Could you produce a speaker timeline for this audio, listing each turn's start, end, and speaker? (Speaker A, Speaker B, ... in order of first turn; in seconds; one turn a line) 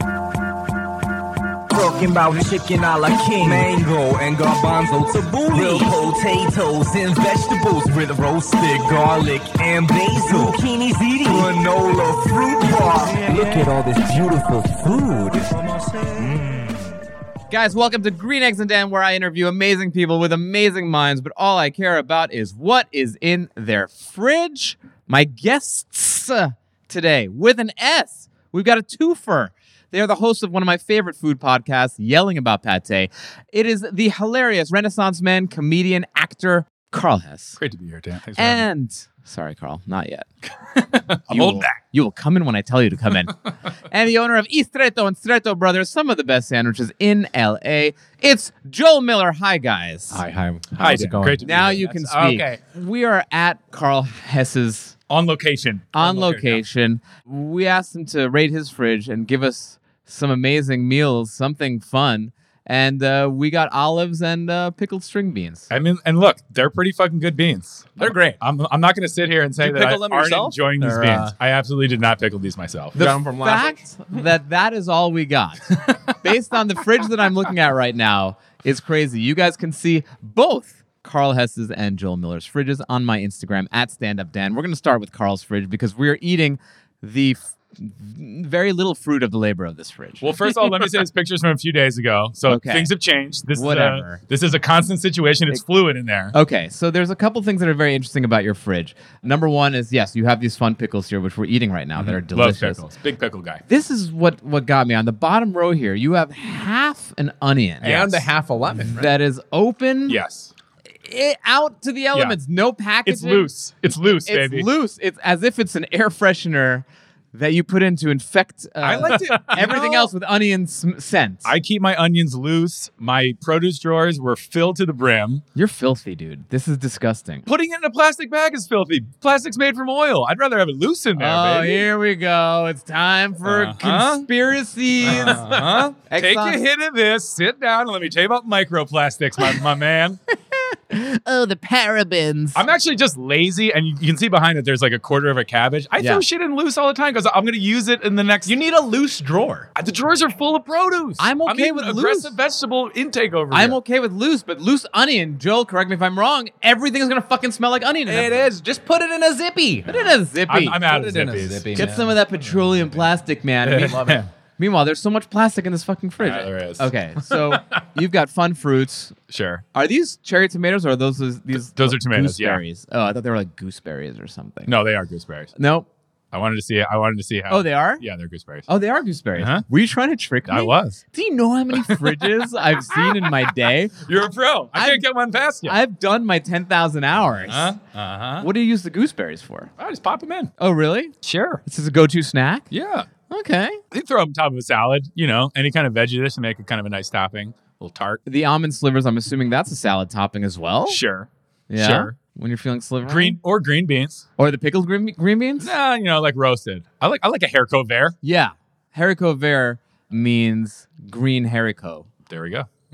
Speaker A: 1.7-16.1
Speaker B: 17.5-37.6
Speaker C: 37.6-38.6
Speaker B: 38.4-40.3
Speaker C: 40.7-41.8
Speaker B: 41.3-50.2
Speaker D: 50.1-51.9
Speaker C: 50.8-52.6
Speaker B: 51.4-55.0
Speaker C: 55.1-56.6
Speaker B: 55.9-65.7
Speaker C: 65.7-73.1
Speaker D: 68.0-68.4
Speaker D: 69.6-71.3
Speaker D: 73.0-74.2
Speaker B: 73.0-90.5
Speaker C: 90.2-96.3
Speaker B: 92.5-92.9
Speaker B: 93.5-94.2
Speaker B: 96.3-102.8
Speaker C: 102.0-103.6
Speaker B: 103.7-108.0
Speaker C: 107.8-108.3
Speaker D: 107.8-109.1
Speaker B: 108.8-110.2
Speaker C: 110.1-110.5
Speaker B: 111.0-121.5
Speaker C: 113.0-114.7
Speaker C: 118.8-120.1
Speaker C: 121.4-125.4
Speaker B: 125.5-127.5
Speaker C: 127.5-131.9
Speaker B: 131.2-135.4
Speaker C: 133.4-134.3
Speaker C: 135.0-140.2
Speaker D: 135.0-135.8
Speaker B: 136.1-136.6
Speaker B: 140.7-142.6
Speaker C: 142.5-148.6
Speaker B: 146.0-146.2
Speaker D: 148.4-149.7
Speaker C: 149.8-153.8
Speaker B: 151.2-152.3
Speaker B: 153.5-158.5
Speaker D: 158.1-159.9
Speaker B: 159.8-160.8
Speaker C: 160.4-161.8
Speaker D: 160.8-162.1
Speaker B: 161.7-164.0
Speaker C: 163.6-164.3
Speaker D: 163.7-164.2
Speaker B: 164.6-169.1
Speaker C: 166.2-167.7
Speaker C: 169.3-169.6
Speaker B: 169.7-174.8
Speaker C: 171.7-172.6
Speaker C: 174.7-175.5
Speaker B: 175.6-175.9
Speaker C: 176.3-178.7
Speaker B: 177.5-178.0
Speaker B: 178.7-184.0
Speaker C: 179.4-179.6
Speaker C: 180.4-181.0
Speaker C: 181.7-183.5
Speaker C: 184.0-185.8
Speaker B: 184.7-185.0
Speaker B: 185.6-187.8
Speaker C: 187.4-188.5
Speaker B: 188.4-189.7
Speaker C: 189.8-190.5
Speaker B: 190.6-191.1
Speaker C: 191.2-191.6
Speaker B: 191.6-192.7
Speaker C: 192.7-193.1
Speaker B: 193.3-193.8
Speaker C: 193.9-198.2
Speaker B: 198.2-201.0
Speaker C: 200.9-202.2
Speaker B: 201.7-203.4
Speaker C: 203.0-204.2
Speaker B: 204.4-205.7
Speaker C: 205.6-208.2
Speaker B: 208.2-212.1
Speaker C: 212.3-212.7